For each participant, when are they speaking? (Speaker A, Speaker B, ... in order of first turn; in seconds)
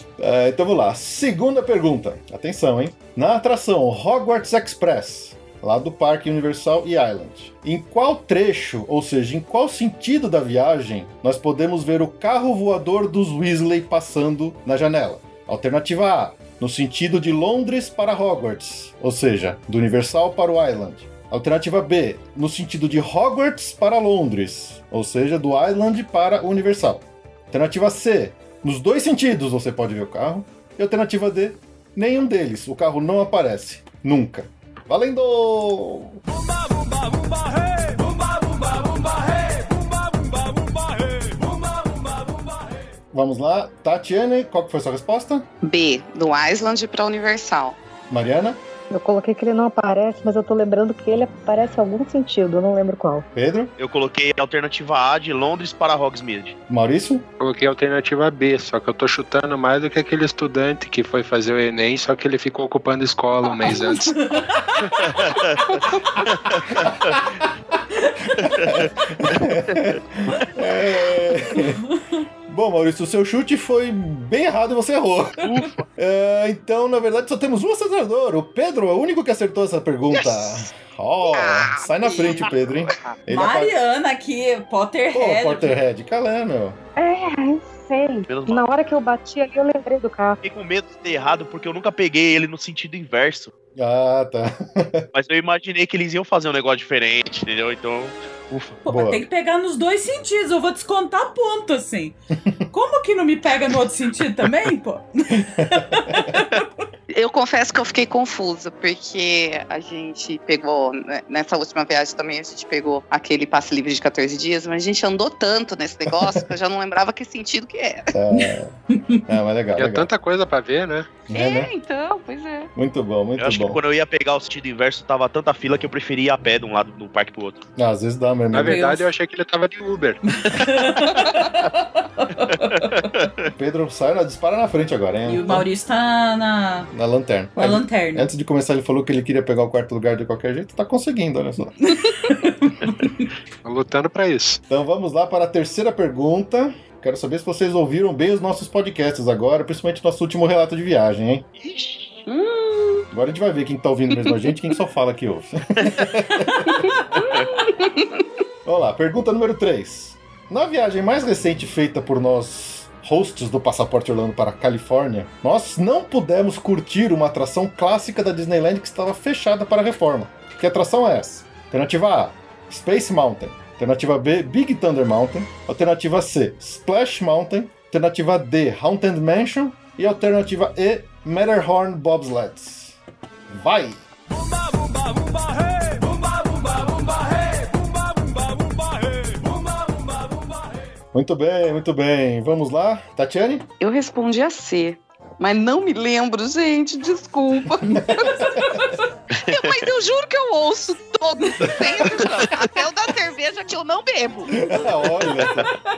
Speaker A: 0.2-36.2, 43.1-45.5, 48.1-48.6, 53.3-53.7, 56.7-57.2, 66.7-67.4, 68.4-71.8, 72.5-83.7, 85.1-86.8, 93.8-95.0, 98.8-99.2, 105.4-106.2, 116.1-116.4, 118.1-118.7, 119.3-120.1, 121.3-121.7, 122.8-123.8, 127.8-128.8, 133.5-135.7, 136.9-141.7, 144.7-151.4, 153.1-156.9, 158.6-183.0, 183.5-184.0, 191.1-193.7, 197.9-198.8, 204.5-205.7
Speaker B: 45.6-47.8, 81.3-83.1, 107.1-118.1, 121.3-122.7, 152.3-153.1, 156.6-158.2, 193.8-198.6, 199.4-205.1
Speaker C: 48.9-53.2, 87.0-90.4
Speaker D: 53.8-56.5, 65.1-67.2, 68.4-68.9, 69.4-70.0, 75.4-75.9, 80.1-80.6, 88.3-88.7, 90.4-93.5, 95.1-98.8, 123.4-127.6, 132.8-133.5, 151.6-152.2, 157.2-157.5, 199.3-199.9, 202.2-202.5
Speaker E: 57.4-64.3, 119.8-121.2, 128.5-130.2, 143.6-144.6
Speaker F: 63.7-65.4, 67.9-68.2, 71.5-72.2, 83.3-85.8, 98.8-102.1, 102.7-106.7, 118.3-119.2, 128.6-129.1, 130.3-133.1, 135.2-136.9, 137.6-138.3, 141.9-143.3, 198.4-198.9